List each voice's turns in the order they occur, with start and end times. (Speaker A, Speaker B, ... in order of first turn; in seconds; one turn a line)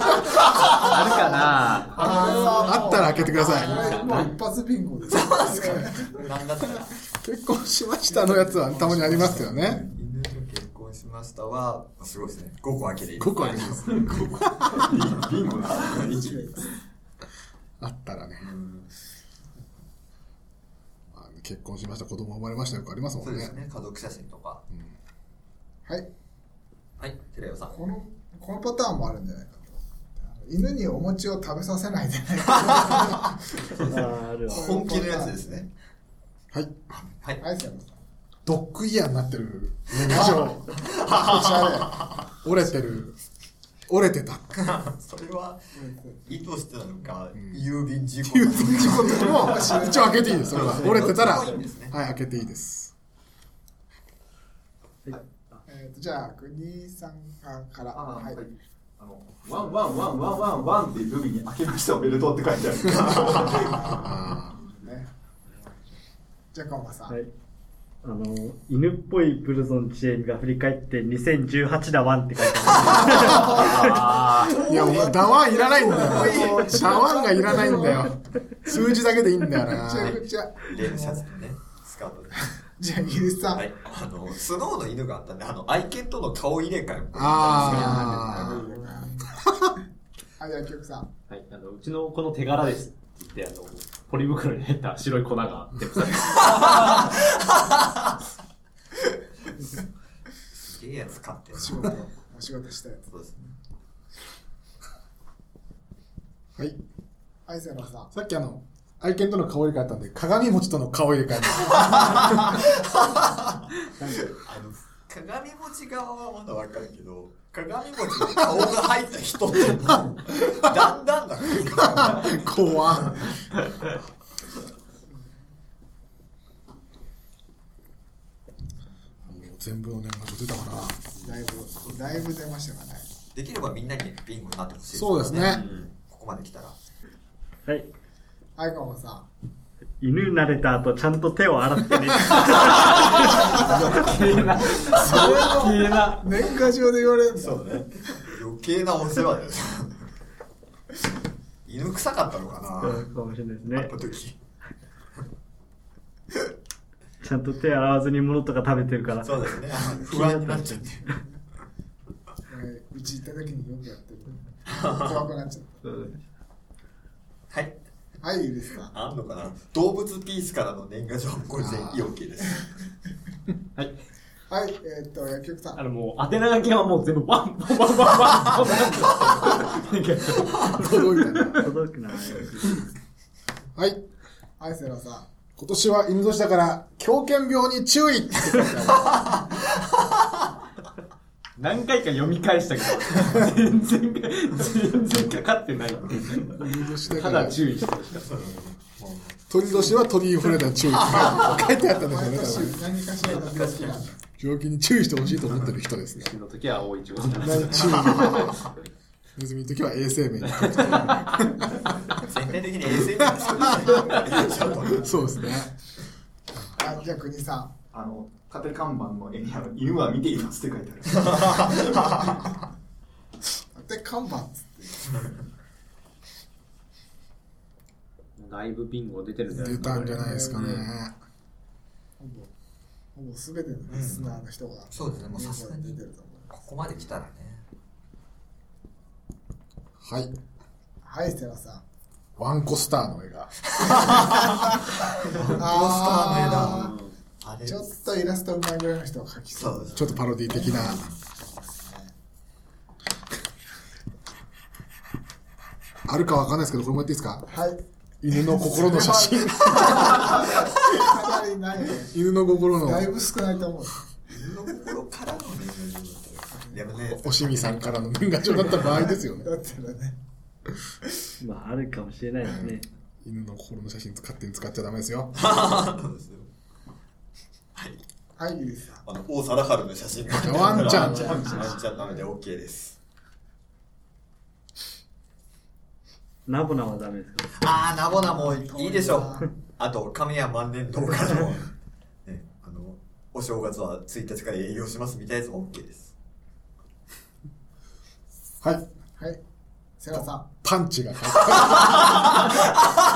Speaker A: 0.2-1.4
Speaker B: 0.7-2.1
Speaker C: 1.9-6.2
Speaker A: 2.1-2.6
Speaker D: 2.5-3.9
Speaker A: 3.1-3.9
Speaker B: 3.4-4.3
Speaker A: 5.1-6.9
Speaker D: 6.6-9.8
Speaker C: 8.1-9.4
Speaker A: 9.0-14.3
Speaker D: 13.2-14.8
Speaker E: 13.8-16.2
Speaker A: 15.2-16.5
Speaker C: 15.9-16.8
Speaker D: 17.8-18.5
Speaker A: 18.4-18.9
Speaker D: 21.1-23.6
Speaker A: 23.2-24.6
Speaker A: 27.0-27.8
Speaker C: 27.7-33.3
Speaker A: 32.7-33.1
Speaker F: 33.8-34.7
Speaker C: 34.5-35.6
Speaker A: 34.5-35.7
Speaker D: 36.5-36.9
Speaker A: 36.9-37.4
Speaker C: 37.4-38.0
Speaker D: 38.5-40.7
Speaker C: 40.1-42.0
Speaker A: 41.0-41.9
Speaker D: 42.4-43.2
Speaker D: 43.9-44.6
Speaker A: 44.6-45.6
Speaker C: 45.8-46.4
Speaker A: 46.3-49.6
Speaker D: 47.3-47.6
Speaker D: 48.3-52.9
Speaker C: 48.8-51.1
Speaker A: 50.5-52.0
Speaker F: 50.6-51.4
Speaker F: 55.0-55.6
Speaker C: 55.7-58.4
Speaker E: 57.9-64.1
Speaker C: 63.1-65.8
Speaker D: 64.0-64.5
Speaker C: 66.5-67.2
Speaker F: 68.0-75.1
Speaker A: 72.7-77.1
Speaker C: 73.1-73.7
Speaker B: 73.8-74.5
Speaker D: 74.7-80.2
Speaker C: 76.0-76.6
Speaker F: 76.4-76.8
Speaker F: 77.4-78.1
Speaker C: 79.7-81.3
Speaker A: 80.0-82.3
Speaker C: 82.6-83.6
Speaker A: 83.5-88.6
Speaker D: 87.1-88.6
Speaker C: 87.5-89.3
Speaker B: 87.5-89.1
Speaker C: 90.4-91.1
Speaker B: 91.3-97.1
Speaker A: 100.5-101.8
Speaker C: 101.5-103.5
Speaker A: 103.1-103.4
Speaker C: 107.5-108.1
Speaker D: 108.1-112.5
Speaker A: 112.6-113.6
Speaker F: 114.0-114.3
Speaker A: 114.2-122.3
Speaker D: 121.8-123.3
Speaker D: 129.3-131.0
Speaker C: 131.2-133.1
Speaker A: 133.3-136.8
Speaker D: 134.9-135.6
Speaker B: 135.4-135.9
Speaker C: 138.6-139.3
Speaker F: 140.0-144.1
Speaker B: 142.7-146.4
Speaker A: 143.5-144.4
Speaker C: 144.6-147.9
Speaker A: 147.4-150.0
Speaker A: 151.7-153.1
Speaker F: 152.8-153.9
Speaker A: 153.7-154.4
Speaker F: 157.2-161.2
Speaker A: 159.2-161.1
Speaker C: 162.5-165.8
Speaker A: 164.7-165.2
Speaker B: 165.8-166.2
Speaker A: 167.5-167.8
Speaker C: 168.2-168.9
Speaker A: 168.9-172.6
Speaker D: 171.6-172.1
Speaker C: 174.5-175.8
Speaker B: 175.8-181.7
Speaker D: 180.7-181.7
Speaker F: 181.6-182.9
Speaker D: 183.8-184.0
Speaker C: 184.6-185.3
Speaker D: 185.6-189.0
Speaker C: 188.6-189.3
Speaker A: 189.1-189.5
Speaker B: 191.6-198.5
Speaker D: 196.6-197.6
Speaker A: 198.2-198.7
Speaker D: 198.9-202.8
Speaker C: 201.4-204.2
Speaker B: 203.4-203.6
Speaker D: 204.4-206.3
Speaker B: 206.2-208.6
Speaker D: 207.2-208.7
Speaker D: 209.4-212.0
Speaker B: 210.6-211.2
Speaker A: 212.2-215.3
Speaker D: 213.2-214.1
Speaker C: 213.8-214.8
Speaker D: 215.0-215.7
Speaker C: 216.8-217.7
Speaker E: 217.9-221.9
Speaker C: 223.7-225.1
Speaker B: 228.4-230.9
Speaker D: 229.5-231.1
Speaker C: 229.9-230.7
Speaker C: 232.2-232.5
Speaker C: 233.2-236.5
Speaker A: 233.9-236.0
Speaker A: 236.5-237.6
Speaker D: 240.0-240.3
Speaker C: 241.0-241.8
Speaker D: 242.4-244.1
Speaker A: 243.8-244.7
Speaker A: 245.3-247.8
Speaker C: 245.5-247.0
Speaker B: 246.7-247.1
Speaker C: 247.7-252.1
Speaker A: 249.6-251.2
Speaker D: 250.0-251.1
Speaker D: 256.1-257.5
Speaker C: 257.5-257.8
Speaker D: 258.2-260.4
Speaker C: 258.3-262.1
Speaker A: 259.0-260.5
Speaker D: 262.1-263.1
Speaker C: 262.8-264.1
Speaker A: 264.3-268.0
Speaker C: 266.5-266.8
Speaker D: 267.1-269.5
Speaker A: 268.6-269.1
Speaker C: 268.9-270.2
Speaker F: 271.4-272.9
Speaker D: 272.4-275.3
Speaker A: 275.4-276.5
Speaker A: 277.8-278.0
Speaker C: 278.4-279.1
Speaker A: 279.0-283.0
Speaker D: 280.4-281.3
Speaker E: 280.6-282.0
Speaker B: 280.9-281.2
Speaker F: 286.5-287.6
Speaker A: 287.5-291.7
Speaker C: 288.1-289.5
Speaker A: 292.3-296.1
Speaker C: 300.0-300.5
Speaker D: 300.1-302.4